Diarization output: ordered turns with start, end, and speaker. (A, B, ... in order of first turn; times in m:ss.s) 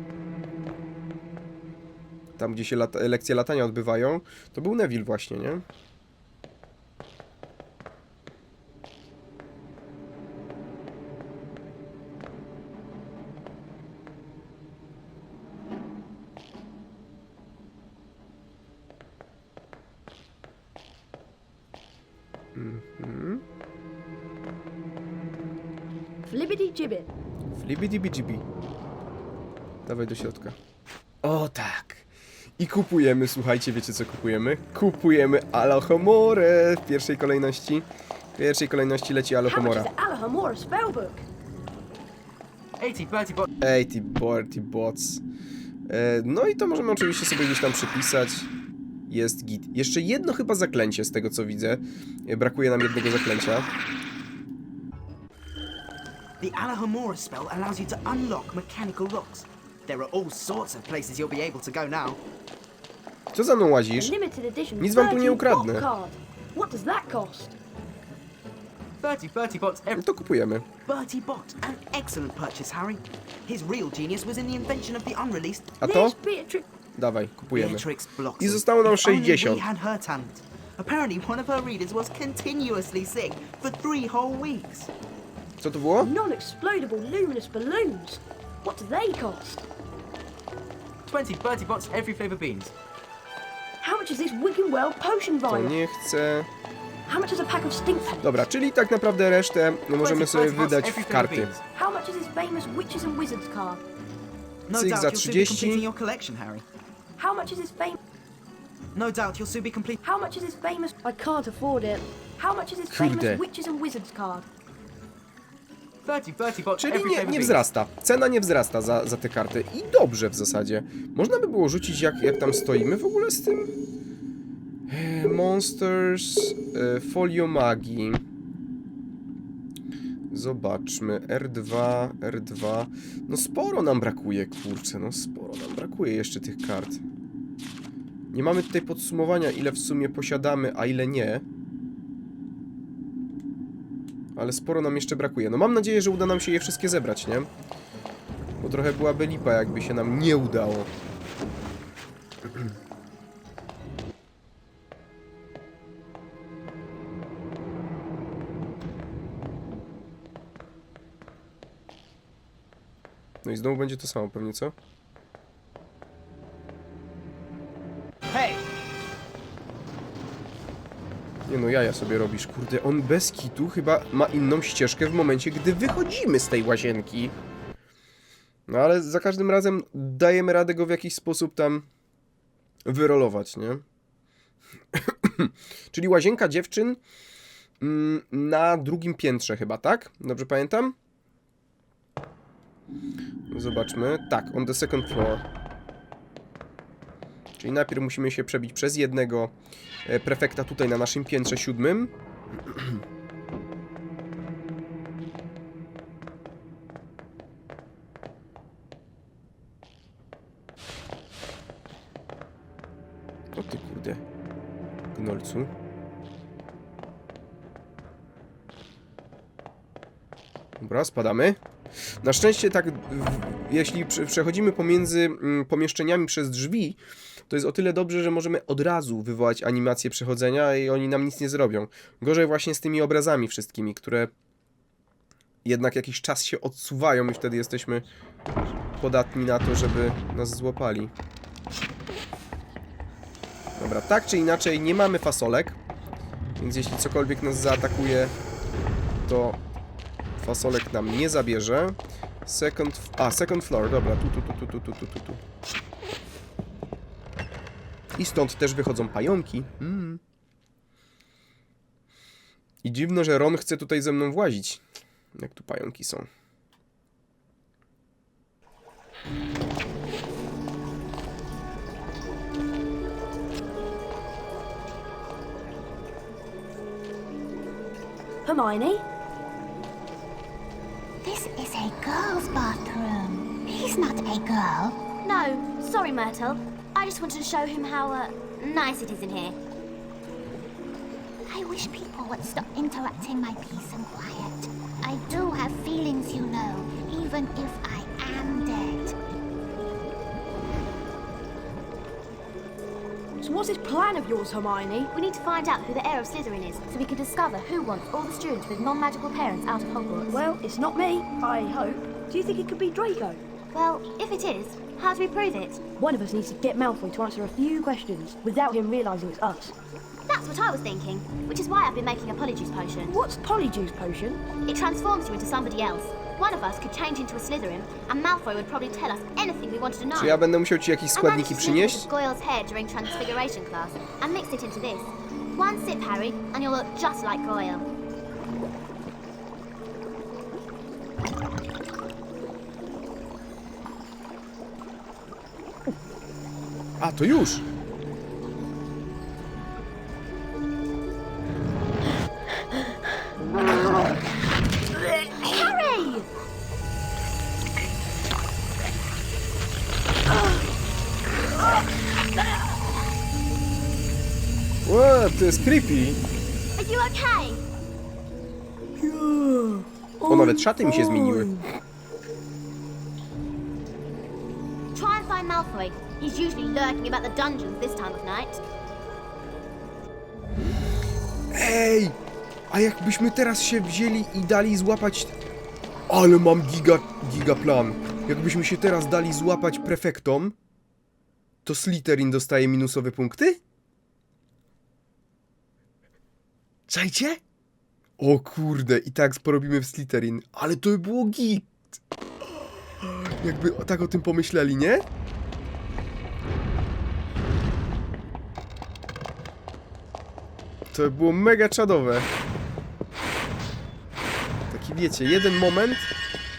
0:02.4-0:05.6 A
0:22.6-0:23.4 A
0:26.2-0:27.1 B
0:27.5-0:28.4 A
0:29.8-0:30.6 A
0:31.2-0:32.1 A
0:32.6-0:39.9 A
0:39.4-0:41.2 B
0:42.8-0:43.5 C
0:43.6-0:45.2 A
0:45.9-0:48.5 A
0:49.1-0:53.7 A
0:56.4-1:02.2 C
1:03.3-1:04.1 A
1:04.0-1:07.5 B
1:04.8-1:05.8 A
1:09.0-1:10.0 C
1:09.9-1:10.6 A
1:10.8-1:15.8 C
1:15.8-1:16.2 A
1:15.8-1:16.6 B
1:17.0-1:19.6 A
1:17.5-1:24.9 C
1:25.6-1:26.1 A
1:26.0-1:29.6 B
1:31.0-1:32.7 C
1:33.8-1:35.8 B
1:35.4-1:36.5 A
1:37.1-1:38.3 B
1:38.2-1:41.6 A
1:40.0-1:41.6 C
1:41.8-1:43.8 B
1:44.7-1:46.6 C
1:44.7-1:45.9 A
1:47.2-1:48.0 B
1:48.9-1:50.0 C
1:50.0-1:54.5 B
1:52.9-1:53.4 A
1:56.0-1:57.7 C
1:56.8-2:03.7 A
2:04.9-2:08.2 A
2:10.3-2:17.0 A
2:18.3-2:21.4 A
2:24.4-2:27.5 A
2:28.6-2:30.9 A
2:43.4-2:44.7 A
2:48.3-2:48.6 C
2:51.5-2:57.3 A
2:58.7-3:01.8 A
3:02.8-3:03.8 A
3:04.9-3:07.0 A
3:07.8-3:11.0 A
3:13.5-3:15.4 A
3:17.6-3:19.5 A
3:20.0-3:23.0 A
3:33.6-3:34.2 A
3:35.1-3:35.7 A
3:40.8-3:41.6 A
3:42.2-3:47.0 A
3:47.5-3:54.3 A
3:55.6-3:58.0 A
3:59.0-4:01.1 A
4:03.8-4:05.8 A
4:06.6-4:08.3 A
4:09.2-4:09.6 A
4:10.4-4:15.4 A
4:18.2-4:20.2 A
4:22.8-4:24.8 A
4:25.4-4:26.3 A
4:38.5-4:39.0 B
4:41.2-4:45.0 D
4:45.2-4:49.6 E
4:51.5-4:59.1 D
5:03.4-5:05.1 B
5:05.1-5:10.2 E
5:10.0-5:13.4 B
5:13.7-5:15.8 E
5:16.0-5:19.7 B
5:20.3-5:23.2 E
5:23.1-5:24.5 B
5:24.6-5:30.4 E
5:30.2-5:32.0 A
5:31.2-5:37.8 E
5:47.0-5:47.6 A
5:55.6-5:56.2 B
6:04.8-6:06.2 A
6:06.8-6:07.6 E
6:09.0-6:11.6 B
6:10.3-6:11.5 A
6:14.9-6:18.6 E
6:21.5-6:22.2 A
6:22.7-6:25.3 A
6:26.1-6:30.6 A
6:31.6-6:33.6 A
6:36.9-6:37.4 A
6:38.2-6:41.8 A
6:43.0-6:45.0 A
6:50.9-6:52.3 A
6:54.7-6:56.1 A